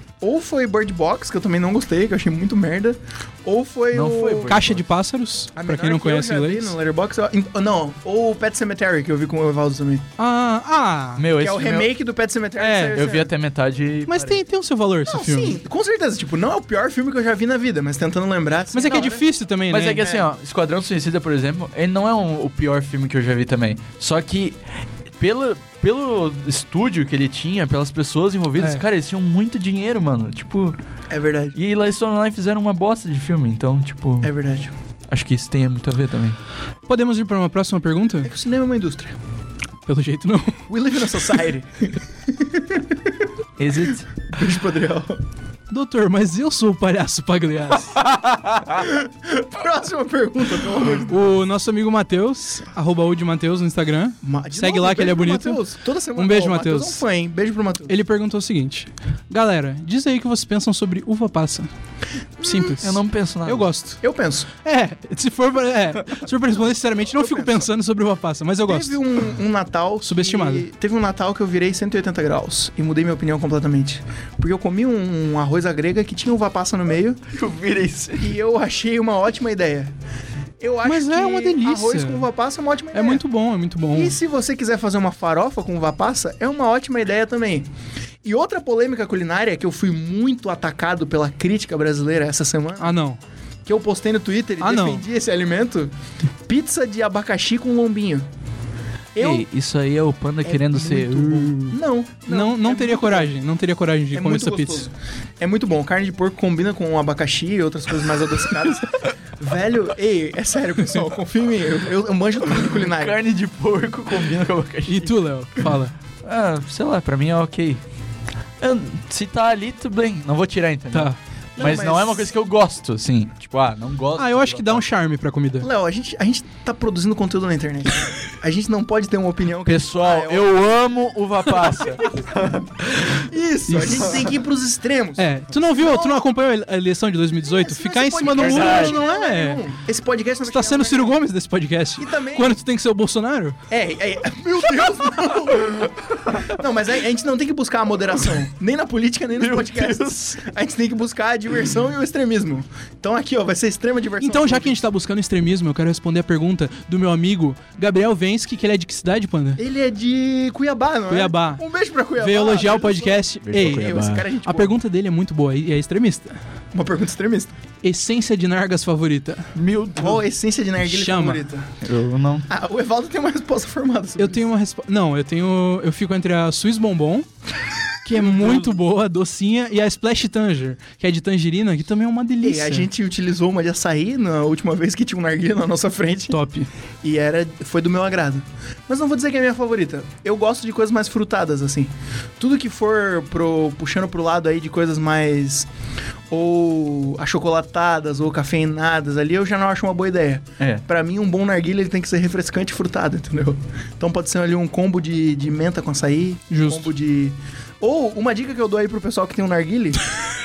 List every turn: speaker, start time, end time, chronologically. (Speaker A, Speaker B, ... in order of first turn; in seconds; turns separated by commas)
Speaker A: 0.2-4.5, Speaker B: 3.9-4.8, Speaker C: 4.5-6.7, Speaker A: 5.5-10.0, Speaker C: 10.2-11.2, Speaker B: 11.2-11.9, Speaker A: 11.3-13.3, Speaker C: 12.6-13.0, Speaker B: 12.9-14.4, Speaker C: 14.1-15.6, Speaker A: 15.1-19.2, Speaker C: 18.7-20.0, Speaker B: 19.7-24.6, Speaker A: 20.0-20.3, Speaker B: 25.2-30.8, Speaker C: 28.6-28.8, Speaker A: 31.1-31.6, Speaker B: 31.5-34.3, Speaker A: 34.2-34.7, Speaker B: 35.1-36.4, Speaker C: 36.9-38.3, Speaker A: 38.2-39.1, Speaker C: 39.9-40.6, Speaker A: 40.7-43.0, Speaker B: 43.6-44.1, Speaker A: 44.3-45.2, Speaker C: 45.7-48.0, Speaker B: 48.0-48.9, Speaker A: 48.7-51.2, Speaker C: 51.1-55.6, Speaker A: 54.2-57.9, Speaker C: 56.1-57.0, Speaker C: 57.9-61.7, Speaker A: 62.4-62.8, Speaker C: 62.4-64.0, Speaker B: 62.8-63.7, Speaker A: 64.0-64.5, Speaker C: 64.6-69.0, Speaker A: 67.2-67.7, Speaker A: 68.7-77.2, Speaker C: 70.0-70.7, Speaker B: 77.3-78.3, Speaker A: 78.2-79.9, Speaker A: 80.6-83.2, Speaker C: 80.8-82.3, Speaker C: 82.9-84.2, Speaker A: 83.9-87.7, Speaker A: 88.2-92.9, Speaker C: 92.8-93.2, Speaker A: 93.7-95.9, Speaker C: 94.6-95.0, Speaker A: 96.5-98.3, Speaker A: 99.1-99.4, Speaker B: 99.2-101.7, Speaker A: 100.4-103.3, Speaker C: 102.3-104.9, Speaker A: 104.1-113.2, Speaker B: 112.7-115.1, Speaker C: 114.9-115.9, Speaker B: 116.2-117.8, Speaker B: 118.6-124.8, Speaker C: 120.9-121.2, Speaker A: 121.5-122.3, Speaker C: 124.2-125.7, Speaker A: 125.6-130.5, Speaker B: 129.6-132.9, Speaker A: 132.1-135.3, Speaker C: 133.7-134.3, Speaker C: 135.2-139.6, Speaker A: 135.8-136.2, Speaker A: 137.6-141.2, Speaker B: 138.3-139.0, Speaker C: 140.4-143.6, Speaker A: 142.0-142.6, Speaker A: 143.7-154.8, Speaker B: 149.4-150.4, Speaker C: 154.2-159.6, Speaker A: 159.6-164.7, Speaker C: 161.1-161.6, Speaker C: 162.2-166.4, Speaker B: 163.4-164.3, Speaker A: 166.7-167.6, Speaker C: 167.8-169.5, Speaker B: 169.5-170.2, Speaker A: 169.9-171.7, Speaker C: 170.8-171.4, Speaker B: 171.8-172.5, Speaker A: 172.5-174.4, Speaker C: 174.2-177.3, Speaker C: 178.0-182.9, Speaker A: 182.4-186.4, Speaker C: 186.3-186.7, Speaker A: 187.0-195.7, Speaker A: 196.3-210.0, Speaker B: 200.6-200.8, Speaker C: 206.5-206.9